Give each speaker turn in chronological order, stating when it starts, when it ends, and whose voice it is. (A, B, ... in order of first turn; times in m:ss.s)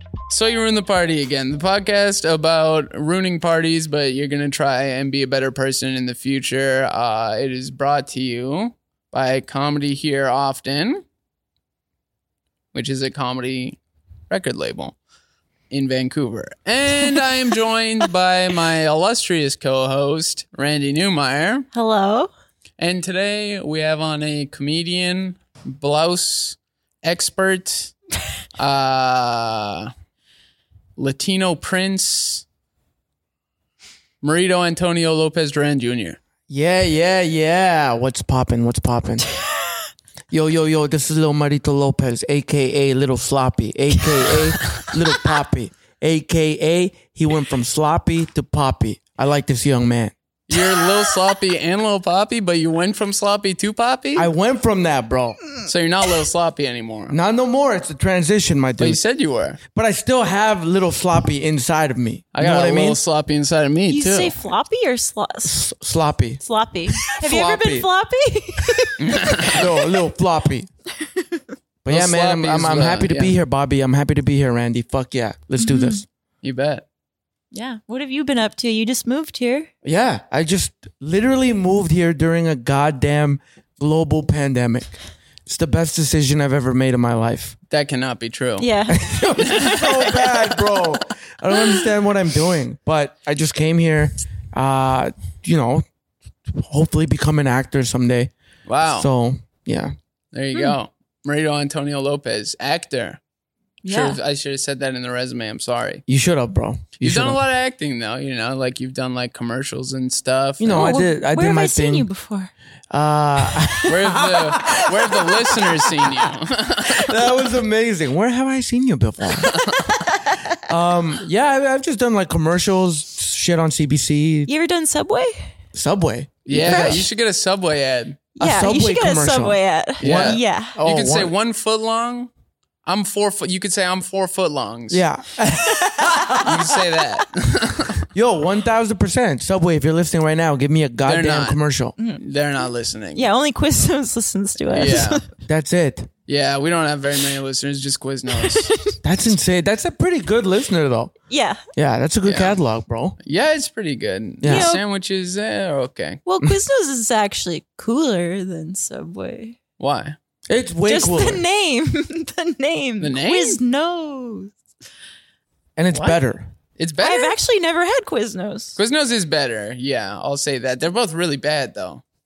0:00.3-0:11.0 A
0:12.7-0:13.8 A
0:14.3-0:15.0 A
0:15.7-0:21.7 A
0:21.7-0:22.3 B
0:22.8-0:28.0 A
0:28.6-0:29.9 A
0:31.0-0:32.4 A
0:34.2-0:36.2 A
0:36.5-0:39.3 C
0:40.3-0:50.1 C
0:50.5-0:54.3 A
0:54.2-0:55.4 C
0:55.6-0:57.2 A
0:57.1-0:59.0 C
0:58.8-0:59.6 A
0:59.7-1:03.0 C
1:02.4-1:04.4 A
1:03.9-1:05.6 B
1:05.4-1:06.4 C
1:06.4-1:09.6 B
1:07.0-1:07.9 C
1:09.0-1:09.7 A
1:09.5-1:10.7 C
1:11.0-1:11.4 B
1:11.8-1:16.1 C
1:11.9-1:13.4 A
1:15.6-1:16.0 B
1:16.4-1:16.8 A
1:17.5-1:19.7 B
1:19.8-1:24.9 C
1:25.5-1:27.6 C
1:27.7-1:28.7 A
1:28.6-1:30.3 B
1:28.9-1:35.8 C
1:29.4-1:30.3 A
1:36.5-1:38.3 C
1:38.7-1:39.1 A
1:38.8-1:39.9 C
1:40.3-1:43.2 A
1:43.8-1:44.2 B
1:43.9-1:46.0 A
1:46.1-1:47.4 C
1:47.0-1:51.0 A
1:50.6-1:52.1 C
1:50.7-1:52.5 B
1:52.9-1:55.4 C
1:53.8-1:57.2 A
1:57.0-1:59.5 C
1:59.4-2:00.6 B
1:59.4-1:59.8 A
2:00.6-2:04.5 C
2:04.5-2:05.5 B
2:05.7-2:07.1 C
2:06.5-2:08.2 A
2:06.5-2:07.1 B
2:08.4-2:10.8 B
2:08.4-2:11.3 C
2:10.0-2:12.3 A
2:12.9-2:15.0 A
2:14.9-2:16.7 C
2:15.7-2:16.5 B
2:16.4-2:18.0 A
2:18.1-2:21.9 C
2:21.0-2:21.6 A
2:22.2-2:23.2 A
2:23.2-2:25.2 B
2:24.7-2:25.2 A
2:25.5-2:26.1 C
2:26.3-2:28.7 A
2:28.3-2:29.0 B
2:29.0-2:31.1 C
2:31.3-2:31.6 B
2:31.8-2:33.2 C
2:32.2-2:32.6 A
2:33.2-2:36.2 A
2:34.4-2:34.8 C
2:34.5-2:34.8 B
2:36.2-2:39.6 B
2:39.8-2:40.2 A
2:40.5-2:41.4 C
2:40.9-2:44.6 B
2:43.0-2:43.6 A
2:45.8-2:46.5 C
2:45.9-2:46.2 A
2:46.8-2:47.4 A
2:47.0-2:48.8 B
2:48.8-2:52.0 A